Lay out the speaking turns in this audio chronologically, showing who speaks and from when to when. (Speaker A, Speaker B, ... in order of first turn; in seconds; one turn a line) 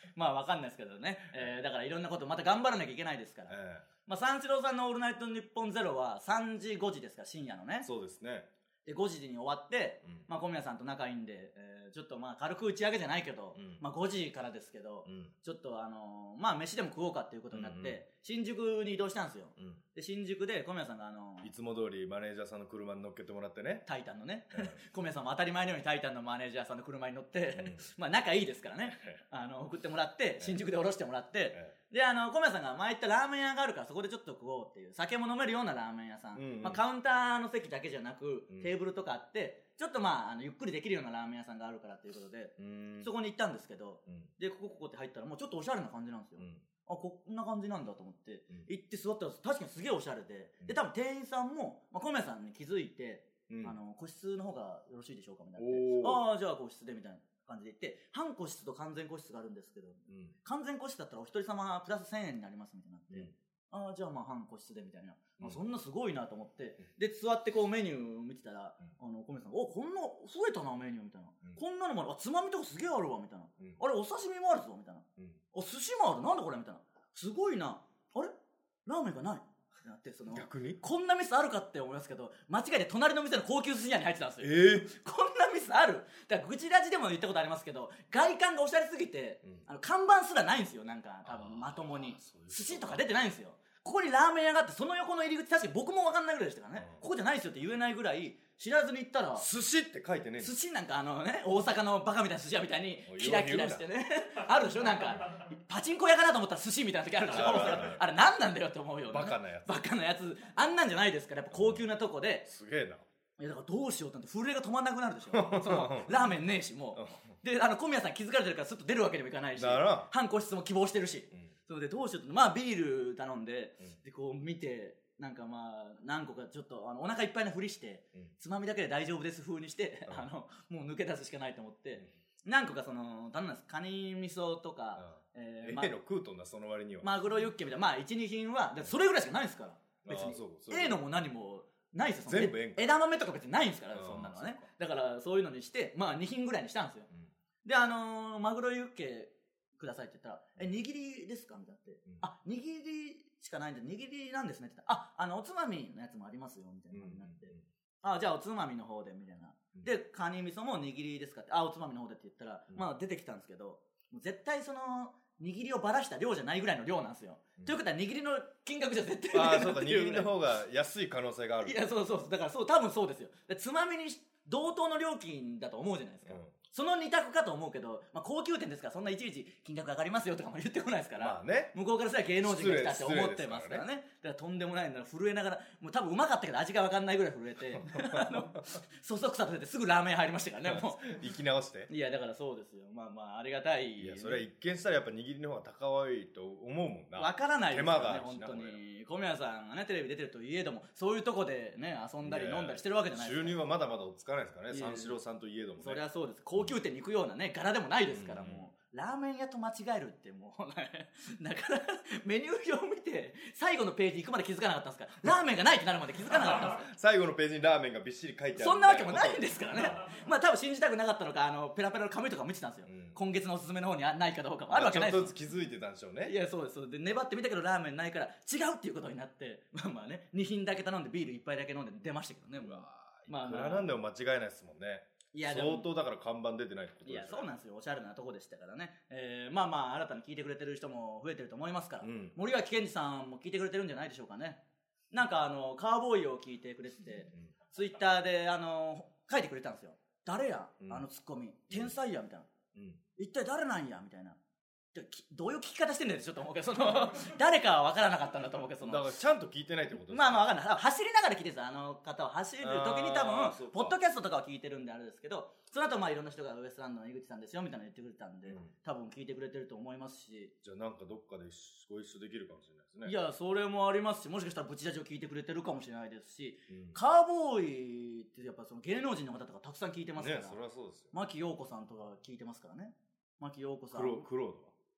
Speaker A: 0.1-3.5
Speaker B: 3.5-3.9
Speaker A: 4.0-7.9
Speaker B: 7.8-8.5
Speaker A: 8.8-21.5
Speaker B: 13.6-13.8
Speaker B: 15.1-15.3
Speaker B: 17.5-18.0
Speaker B: 21.4-23.8
Speaker A: 23.9-78.3
Speaker B: 27.6-27.9
Speaker B: 28.9-29.2
Speaker B: 36.3-36.8
Speaker B: 42.6-43.1
Speaker B: 53.5-53.8
Speaker B: 55.6-56.2
Speaker A: 78.8-99.5
Speaker B: 80.3-80.8
Speaker B: 84.4-84.9
Speaker B: 91.2-93.1
Speaker B: 99.3-100.5
Speaker A: 100.4-112.5
Speaker B: 103.1-103.8
Speaker B: 107.3-108.0
Speaker B: 109.1-109.9
Speaker B: 111.5-111.8
Speaker B: 112.5-113.0
Speaker A: 113.4-135.9
Speaker B: 115.3-116.3
Speaker B: 119.6-120.1
Speaker B: 135.0-137.1
Speaker A: 137.0-147.1
Speaker B: 140.0-141.0
Speaker B: 142.3-142.9
Speaker B: 143.9-144.7
Speaker A: 147.6-170.3
Speaker B: 156.9-157.6
Speaker B: 169.3-171.8
Speaker A: 171.6-191.2
Speaker B: 176.3-176.5
Speaker B: 181.2-181.7
Speaker B: 182.4-183.8
Speaker B: 187.9-188.4
Speaker B: 190.7-191.9
Speaker A: 191.9-194.4
Speaker B: 194.0-198.8
Speaker A: 197.2-203.6
Speaker B: 202.2-206.0
Speaker A: 204.7-205.2
Speaker A: 205.8-216.9
Speaker B: 208.1-208.7
Speaker B: 216.7-220.0
Speaker A: 218.6-225.3
Speaker B: 222.9-223.2
Speaker B: 224.7-226.3
Speaker A: 226.2-233.9
Speaker B: 232.6-237.5
Speaker A: 235.3-235.9
Speaker A: 237.0-244.6
Speaker B: 242.0-242.3
Speaker A: 245.1-252.5
Speaker B: 250.8-251.1
Speaker B: 252.7-253.0
Speaker A: 253.2-254.4
Speaker A: 254.9-259.1
Speaker B: 258.8-260.4
Speaker A: 260.1-270.5
Speaker B: 262.6-263.9
Speaker B: 270.6-273.1
Speaker A: 273.0-280.6
Speaker B: 276.7-277.0
Speaker B: 280.2-281.1
Speaker A: 281.1-284.3
Speaker B: 283.9-284.7